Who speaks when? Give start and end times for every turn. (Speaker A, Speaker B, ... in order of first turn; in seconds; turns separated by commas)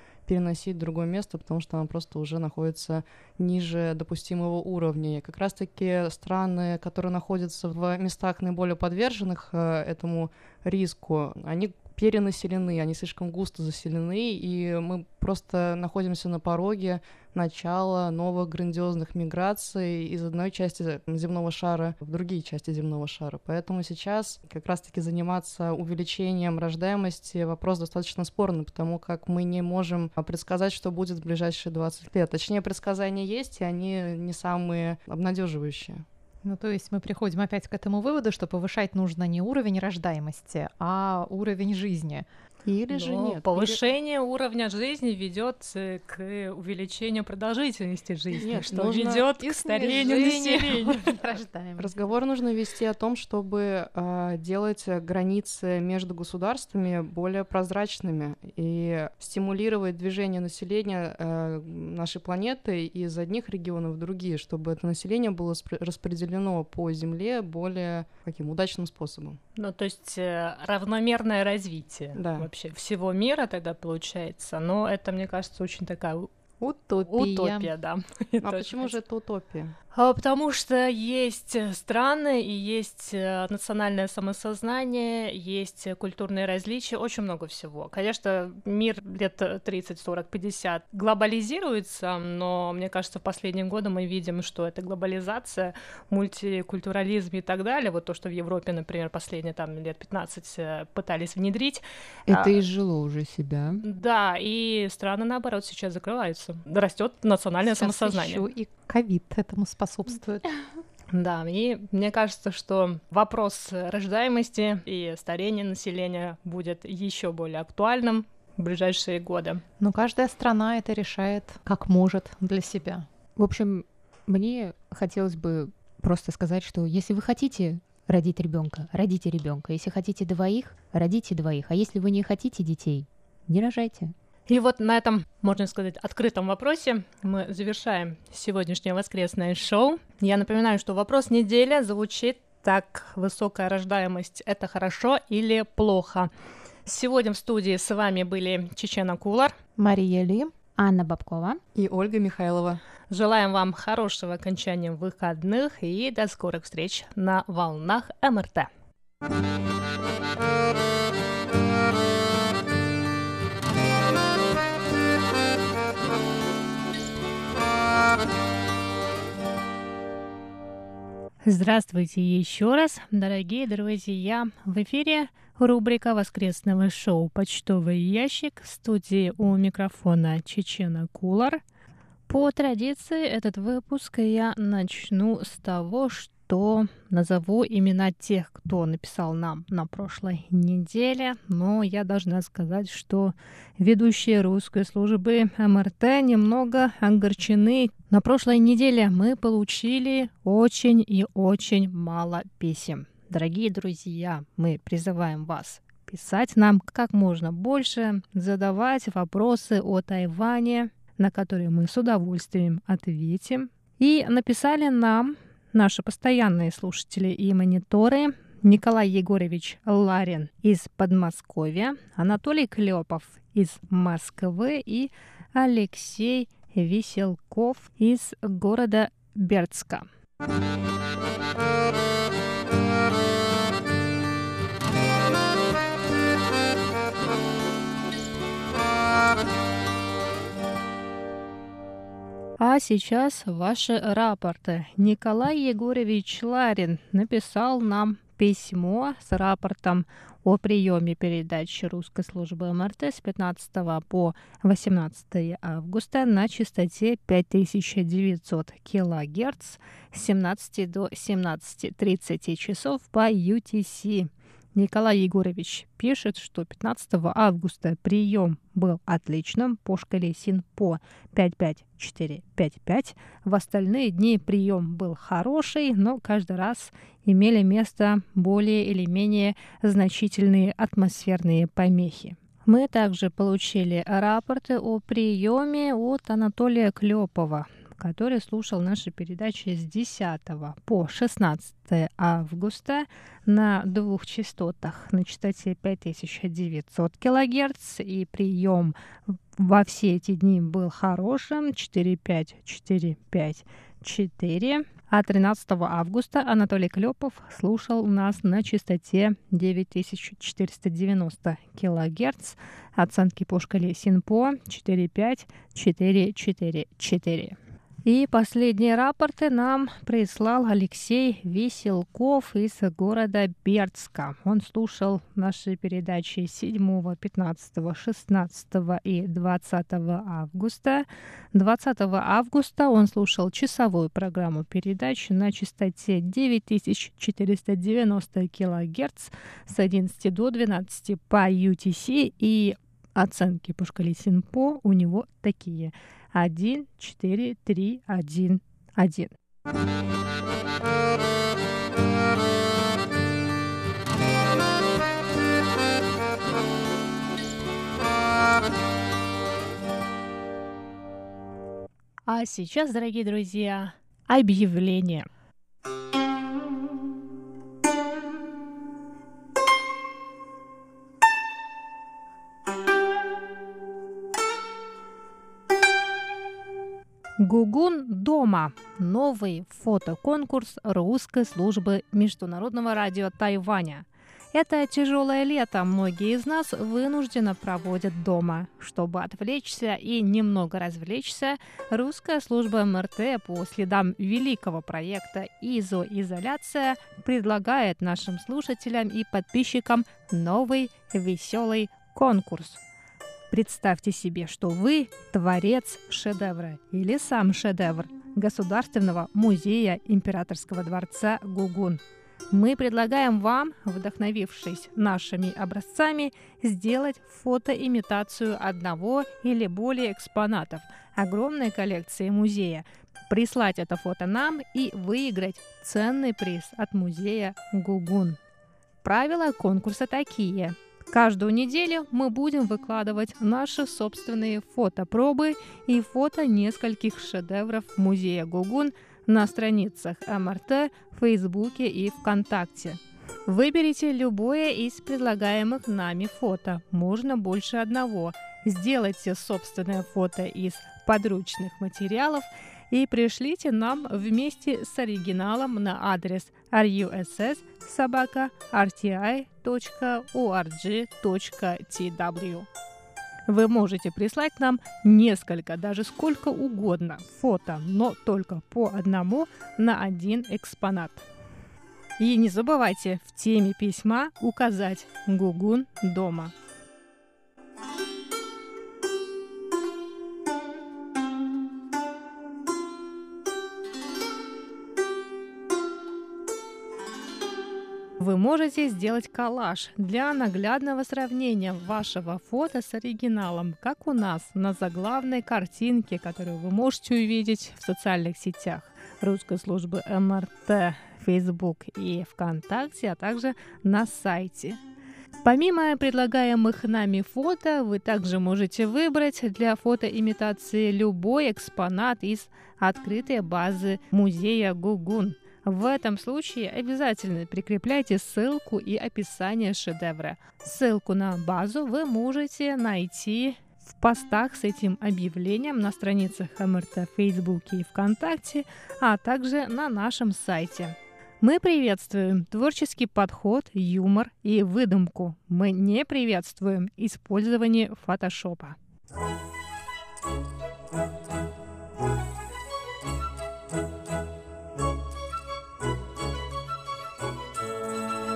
Speaker A: 0.3-36.0, Speaker B: 36.4-43.4, Speaker A: 42.9-43.8, Speaker C: 42.9-51.1, Speaker A: 48.3-50.4, Speaker B: 49.4-51.9, Speaker A: 51.8-69.4, Speaker C: 69.6-76.3, Speaker A: 72.2-72.5, Speaker B: 76.6-77.7, Speaker C: 77.1-79.0, Speaker A: 78.4-79.7, Speaker C: 79.9-102.5, Speaker B: 102.3-103.5, Speaker D: 103.0-103.6, Speaker C: 103.8-108.5, Speaker B: 107.6-110.5, Speaker C: 111.1-119.6, Speaker B: 119.8-123.1, Speaker D: 123.4-134.1, Speaker C: 134.5-146.3, Speaker C: 146.9-149.6, Speaker B: 149.8-150.5, Speaker D: 150.8-151.6, Speaker A: 151.8-152.8, Speaker C: 153.1-158.7, Speaker C: 171.4-181.6, Speaker C: 182.3-230.1, Speaker C: 242.6-349.3, Speaker C: 362.3-365.3, Speaker C: 377.4-402.8, Speaker C: 403.5-428.4, Speaker C: 429.0-462.7, Speaker C: 463.5-471.3, Speaker C: 472.2-476.5, Speaker C: 488.2-504.8, Speaker C: 505.4-538.8